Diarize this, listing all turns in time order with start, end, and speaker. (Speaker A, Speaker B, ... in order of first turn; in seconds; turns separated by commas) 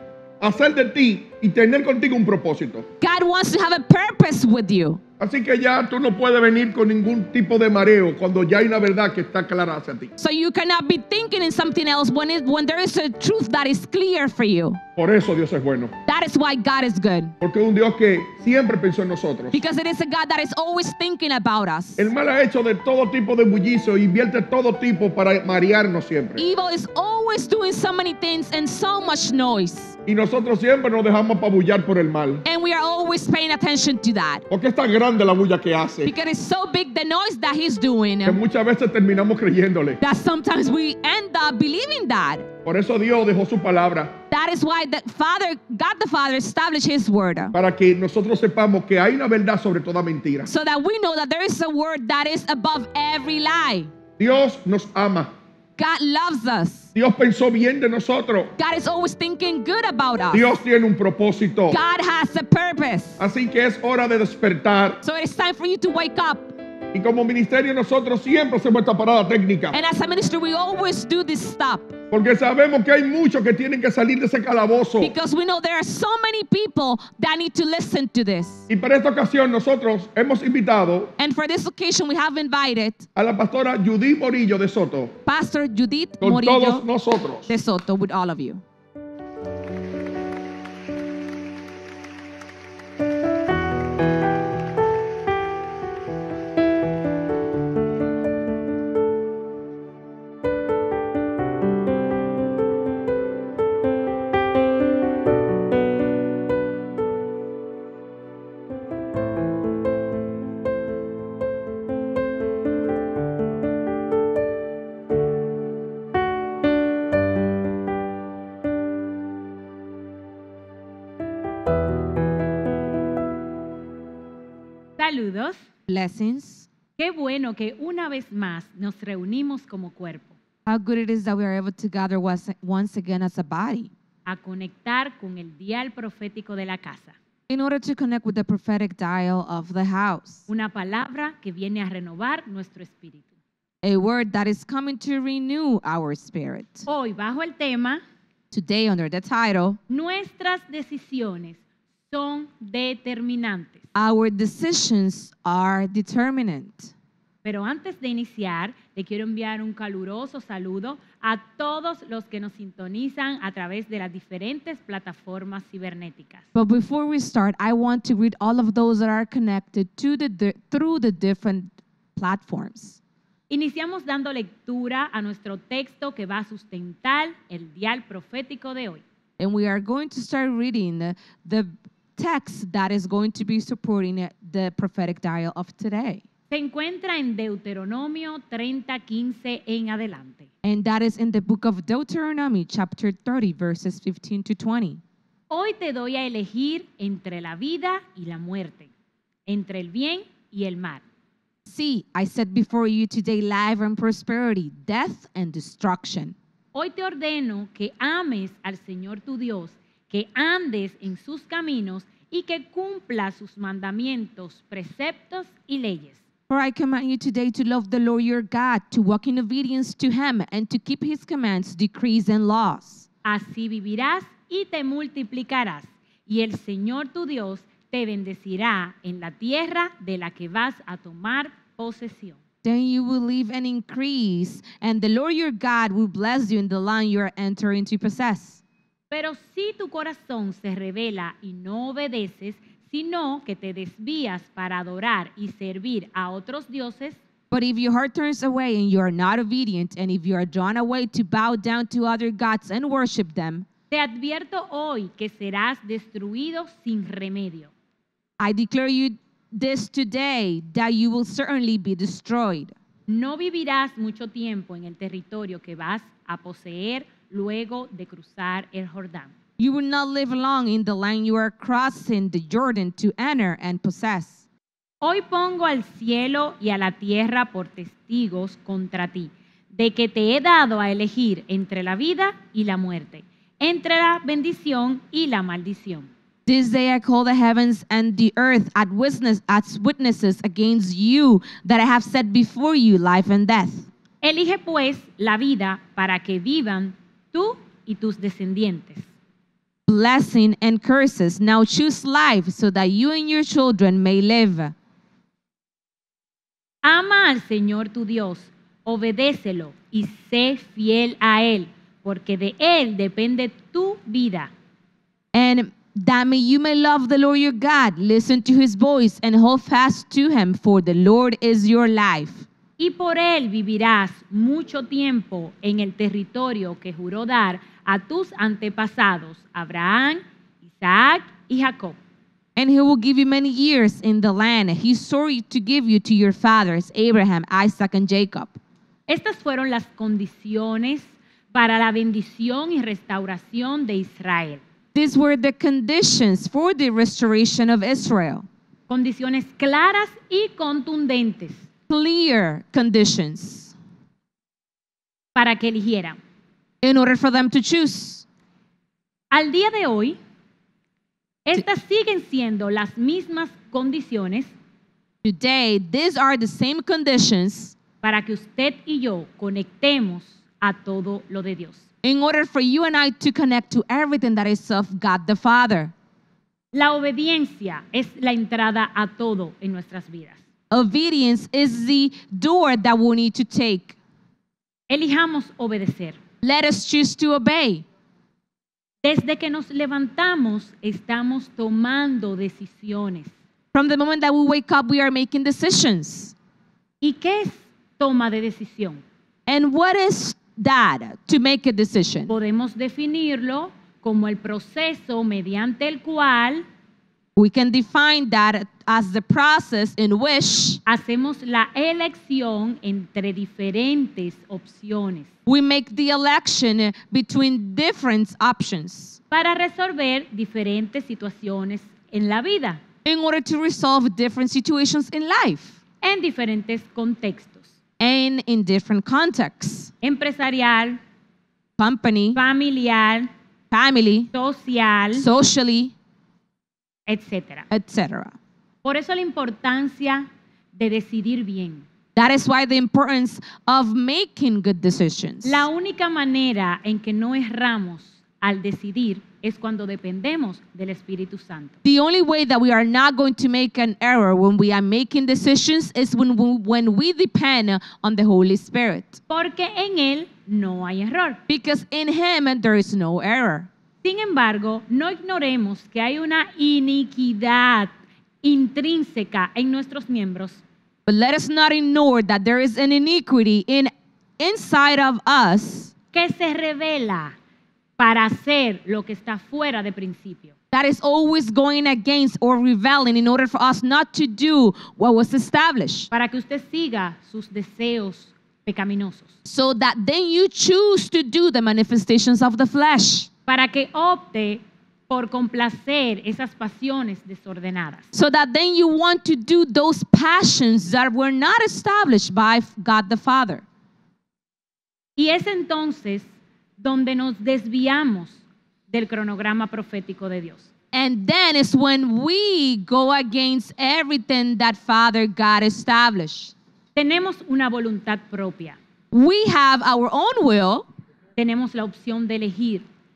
Speaker A: 0.4-2.9, Speaker B: 3.0-5.0, Speaker A: 5.2-10.1, Speaker B: 10.2-14.8, Speaker A: 15.0-15.9, Speaker B: 16.1-17.3, Speaker A: 17.4-19.6, Speaker B: 19.5-22.1, Speaker A: 22.0-26.4, Speaker B: 26.4-30.0, Speaker A: 30.1-32.4, Speaker B: 32.4-34.4, Speaker A: 34.5-36.1, Speaker B: 36.0-38.4, Speaker A: 38.2-40.0, Speaker B: 40.0-42.5, Speaker A: 42.6-44.1, Speaker B: 44.3-47.5, Speaker A: 47.5-50.5, Speaker B: 50.5-53.9, Speaker A: 54.2-55.3, Speaker B: 55.8-56.9, Speaker A: 57.0-58.5, Speaker B: 58.6-60.5, Speaker A: 60.3-61.8, Speaker B: 61.7-63.2, Speaker A: 63.2-65.0, Speaker B: 65.0-66.5, Speaker A: 66.9-69.8, Speaker B: 69.7-71.9, Speaker A: 72.1-75.1, Speaker B: 75.0-78.7, Speaker A: 78.7-81.1, Speaker B: 81.2-83.1, Speaker A: 83.2-85.1, Speaker B: 85.2-86.8, Speaker A: 86.2-87.5, Speaker B: 87.5-88.6, Speaker C: 125.0-125.6, Speaker B: 125.9-126.7, Speaker C: 127.0-130.3, Speaker B: 130.7-133.9, Speaker C: 134.3-137.2, Speaker B: 137.5-140.4, Speaker C: 140.5-143.2, Speaker B: 143.8-146.9, Speaker C: 146.9-148.0, Speaker B: 148.5-149.8, Speaker C: 149.9-151.6, Speaker C: 152.1-153.8, Speaker B: 153.9-156.9, Speaker C: 157.4-166.4, Speaker B: 166.5-173.0, Speaker C: 173.5-179.0, Speaker B: 179.4-186.2, Speaker C: 186.5-190.5, Speaker B: 190.6-195.0, Speaker C: 195.5-198.9, Speaker C: 199.5-201.0, Speaker B: 201.7-206.3, Speaker C: 206.7-216.2, Speaker B: 216.5-223.1, Speaker C: 223.2-232.4, Speaker B: 232.6-238.6, Speaker C: 239.1-247.2, Speaker B: 247.5-253.7, Speaker C: 253.9-257.7, Speaker B: 258.4-262.7, Speaker C: 263.1-269.3, Speaker B: 269.6-274.4, Speaker C: 275.0-286.1, Speaker B: 286.4-293.9, Speaker C: 294.2-299.1, Speaker B: 299.9-304.7, Speaker C: 306.8-314.5, Speaker B: 315.3-322.4, Speaker C: 322.8-331.9, Speaker B: 332.6-338.6, Speaker C: 339.1-344.6, Speaker B: 344.9-348.4, Speaker C: 348.9-351.6, Speaker B: 351.9-353.7, Speaker C: 355.3-356.2, Speaker B: 356.8-358.2, Speaker C: 359.3-360.2, Speaker C: 361.4-364.5, Speaker B: 365.2-367.8, Speaker C: 368.0-371.8, Speaker B: 372.0-375.9, Speaker C: 376.7-380.4, Speaker B: 380.7-383.9, Speaker C: 384.9-386.2, Speaker B: 386.4-387.8, Speaker C: 389.0-393.3, Speaker B: 393.7-396.3, Speaker C: 397.0-399.0, Speaker B: 399.5-402.3, Speaker C: 402.3-406.6, Speaker B: 407.4-410.8, Speaker C: 410.9-415.3, Speaker B: 415.4-419.2, Speaker C: 419.3-422.8, Speaker B: 423.0-425.8, Speaker C: 426.0-427.6, Speaker B: 428.0-429.9, Speaker C: 430.0-431.0, Speaker B: 431.8-432.4, Speaker C: 432.3-433.3, Speaker B: 433.7-434.3, Speaker C: 434.3-435.2, Speaker B: 435.1-435.9, Speaker C: 437.1-437.6, Speaker B: 437.7-438.3, Speaker C: 438.8-441.8, Speaker B: 442.1-445.6, Speaker C: 445.4-451.7, Speaker B: 451.8-459.2, Speaker C: 459.3-461.4, Speaker B: 461.5-463.7, Speaker C: 464.0-467.9, Speaker C: 468.4-470.6, Speaker B: 471.1-475.9, Speaker C: 476.1-477.3, Speaker C: 478.0-480.5, Speaker B: 480.7-486.1, Speaker C: 486.1-489.3, Speaker B: 489.4-493.3, Speaker C: 493.5-498.1, Speaker B: 498.1-503.6, Speaker C: 505.2-506.3, Speaker C: 506.8-508.4, Speaker C: 508.9-510.7, Speaker B: 510.9-516.5, Speaker C: 516.9-518.8, Speaker B: 519.1-520.8, Speaker C: 521.4-522.8